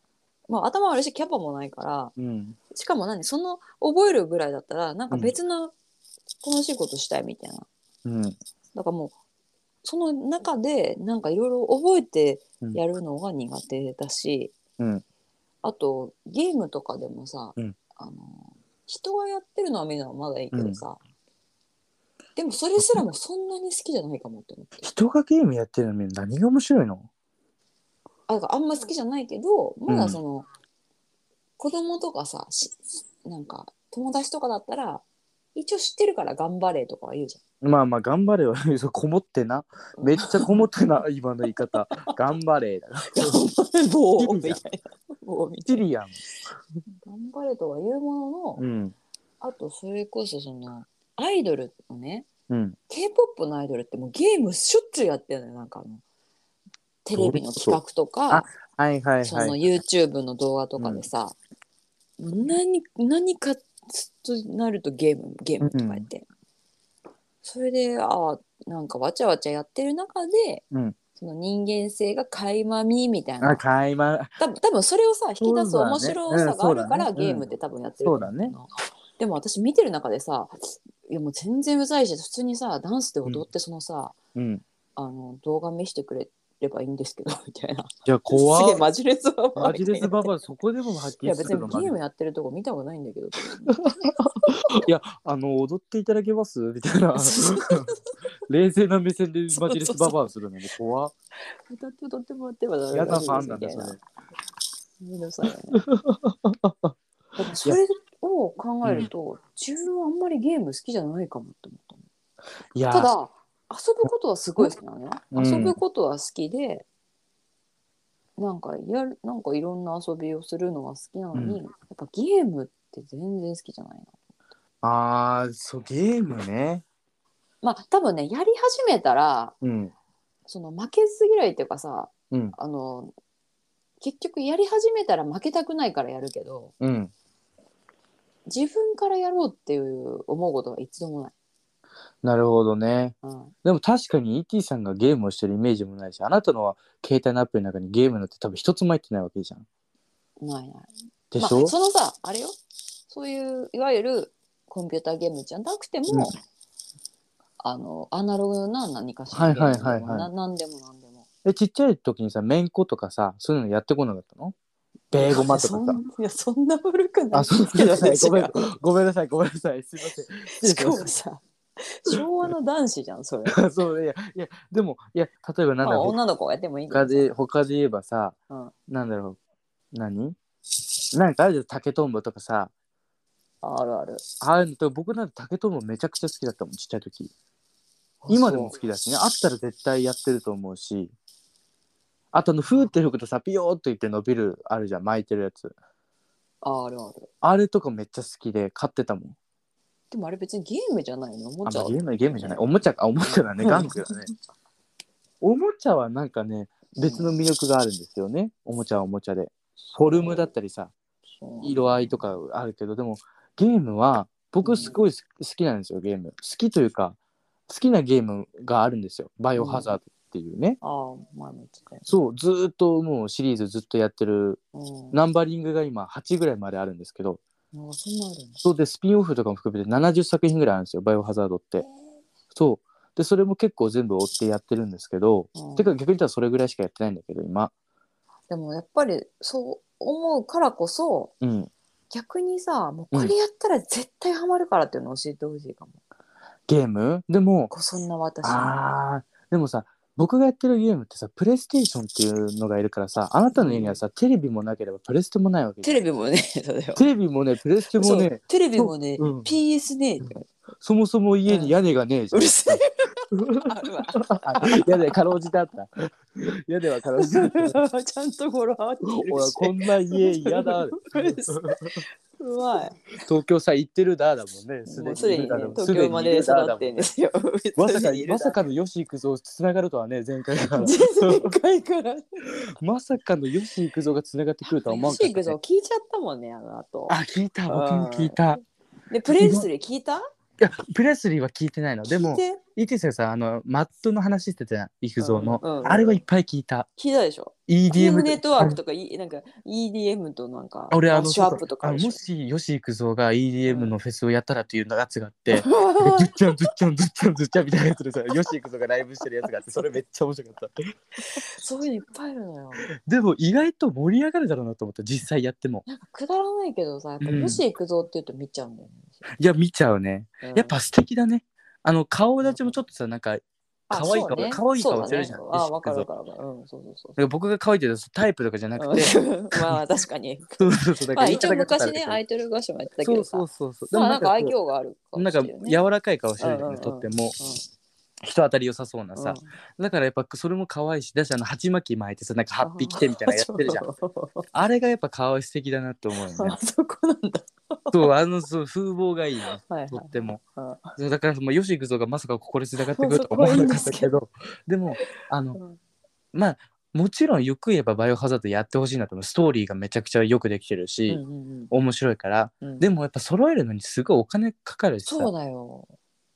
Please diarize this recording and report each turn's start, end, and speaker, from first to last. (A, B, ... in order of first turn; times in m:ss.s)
0:00.5-0:02.1 A
0:02.2-0:02.6 B
0:02.7-0:05.7 A
0:06.4-0:07.7 A
0:08.0-0:08.4 B
0:08.7-0:09.1 A
0:09.8-0:14.5 A
0:14.8-0:15.0 B
0:15.6-0:21.0 A
0:20.5-0:20.8 B
0:22.4-0:24.9 A
0:22.8-0:23.0 B
0:24.8-0:27.1 B
0:28.3-0:30.5 A
0:29.9-0:30.2 B
0:31.6-0:35.0 A
0:35.5-0:37.4 A
0:37.6-0:43.4 B
0:40.0-0:40.6 A
0:41.6-0:42.1 A
0:43.1-0:45.8 A
0:44.2-0:44.6 B
0:45.6-0:46.2 B
0:46.9-0:48.6 A
0:48.6-0:48.9 B
0:49.4-0:52.3 A
0:52.5-0:52.8 B
0:52.9-0:56.0 A
0:57.0-0:58.5 A
0:57.1-0:57.8 B
0:58.3-0:59.7 B
0:59.2-1:01.4 A
1:00.8-1:01.0 B
1:02.2-1:06.2 A
1:05.6-1:06.1 B
1:07.4-1:10.6 A
1:11.2-1:13.6 A
1:13.4-1:14.4 B
1:14.4-1:24.2 A
1:15.4-1:17.4 B
1:18.0-1:18.5 B
1:24.3-1:24.6 B
1:25.0-1:30.3 A
1:28.0-1:28.8 B
1:29.6-1:31.9 B
1:31.2-1:34.8 A
1:33.7-1:37.9 B
1:37.2-1:38.0 A
1:38.5-1:41.1 B
1:39.5-1:40.2 A
1:41.5-1:44.0 A
1:42.9-1:44.0 B
1:45.0-1:45.8 A
1:45.7-1:47.0 B
1:47.4-1:52.0 A
1:48.8-1:49.1 B
1:52.7-1:53.1 B
1:52.9-1:56.8 A
1:55.3-1:55.8 B
1:58.4-2:04.1 A
2:01.3-2:01.6 B
2:04.8-2:06.8 B
2:07.6-2:09.5 A
2:09.6-2:09.9 B
2:10.5-2:13.1 A
2:14.0-2:16.7 A
2:16.8-2:17.1 B
2:18.4-2:21.3 A
2:22.2-2:29.6 B
2:23.2-2:23.5 A
2:30.4-2:32.6 A
2:31.3-2:31.7 B
2:33.1-2:36.3 A
2:37.6-2:41.2 A
2:39.3-2:40.3 B
2:41.4-2:44.6 B
2:45.1-2:46.0 B
2:45.1-2:48.6 A
2:47.3-2:51.1 B
2:50.5-2:53.6 A
2:53.4-2:56.2 B
2:55.8-2:57.3 A
2:56.9-2:58.4 B
2:58.9-2:59.4 B
2:59.9-3:00.4 B
3:01.1-3:02.7 B
3:03.6-3:04.2 A
3:04.4-3:07.3 B
3:08.2-3:08.8 A
3:08.3-3:11.1 B
3:12.3-3:15.7 B
3:16.6-3:17.3 A
3:17.4-3:19.4 B
3:20.1-3:22.7 A
3:21.6-3:24.3 B
3:23.2-3:24.1 A
3:25.4-3:30.9 B
3:26.9-3:27.3 A
3:29.8-3:30.5 A
3:31.2-3:32.3 A
3:31.6-3:37.2 B
3:34.6-3:35.0 A
3:37.7-3:40.8 B
3:39.5-3:39.9 A
3:40.8-3:42.1 A
3:42.0-3:44.6 B
3:44.7-3:45.2 A
3:45.1-3:47.4 B
3:47.7-3:48.6 A
3:48.6-3:51.8 B
3:52.5-3:57.7 B
3:55.5-3:55.9 A
3:58.5-4:01.3 A
4:01.4-4:01.7 B
4:02.1-4:06.0 A
4:06.7-4:07.7 B
4:07.7-4:08.8 A
4:08.4-4:16.0 B
4:13.5-4:14.0 A
4:15.8-4:17.1 A
4:17.0-4:19.5 B
4:17.9-4:20.4 A
4:20.2-4:27.8 B
4:21.5-4:21.7 A
4:22.3-4:25.1 A
4:27.2-4:33.0 A
4:29.0-4:32.0 B
4:33.2-4:37.1 B
4:34.8-4:38.6 A
4:37.8-4:41.5 B
4:40.7-4:42.4 A
4:42.7-4:45.6 B
4:44.6-4:47.2 A
4:47.1-4:48.6 B
4:47.7-4:48.4 A
4:49.1-4:50.2 A
4:49.3-4:49.6 B
4:50.6-4:56.9 B
4:52.1-4:52.6 A
4:55.2-4:56.2 A
4:57.0-5:02.2 A
4:57.7-4:58.8 B
5:00.9-5:10.7 B
5:03.7-5:03.9 A
5:05.5-5:06.6 A
5:11.3-5:12.8 A
5:13.0-5:15.8 B
5:15.8-5:19.2 A
5:17.2-5:17.6 B
5:19.3-5:26.1 B
5:20.4-5:20.8 A
5:22.4-5:22.8 A
5:23.9-5:27.2 A
5:27.2-5:29.8 B
5:28.8-5:35.8 A
5:30.6-5:32.2 B
5:33.0-5:34.5 B
5:35.2-5:37.3 B
5:36.4-5:37.6 A
5:38.2-5:43.8 B
5:39.2-5:39.5 A
5:42.6-5:44.5 A
5:44.5-5:46.6 B
5:46.2-5:48.1 A
5:47.9-5:50.4 B
5:49.6-5:50.9 A
5:51.0-5:55.6 B
5:52.8-5:54.1 A
5:55.0-5:55.8 A
5:56.3-6:05.3 B
6:01.1-6:01.7 A
6:05.0-6:05.9 A